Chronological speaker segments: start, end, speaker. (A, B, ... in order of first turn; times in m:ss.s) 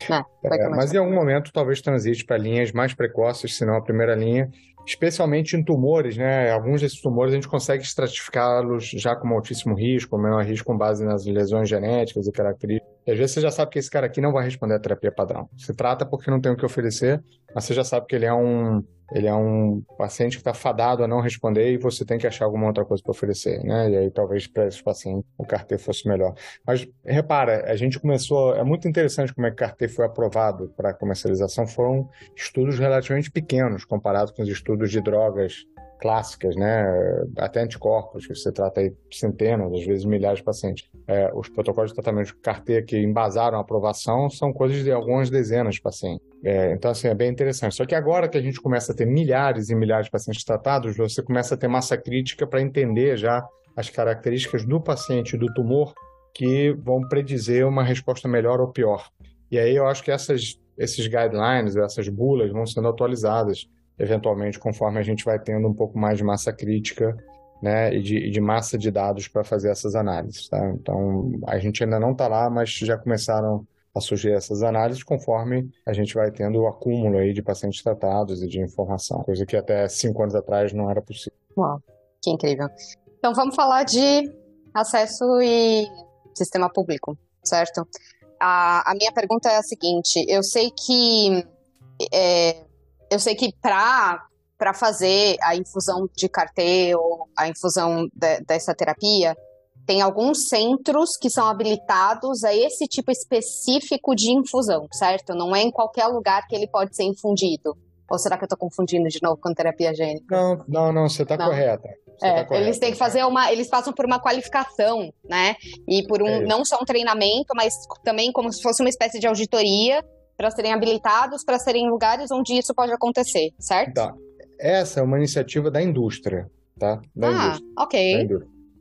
0:00.1-0:01.0 A
0:00.4-1:21.3 B
1:21.6-1:27.9 A
1:28.4-1:31.5 A
1:32.0-1:50.4 A
1:50.3-1:53.2 B
1:51.4-1:51.6 A
1:52.2-2:04.0 A
1:56.3-1:56.6 B
2:03.9-2:08.5 B
2:07.2-2:08.3 A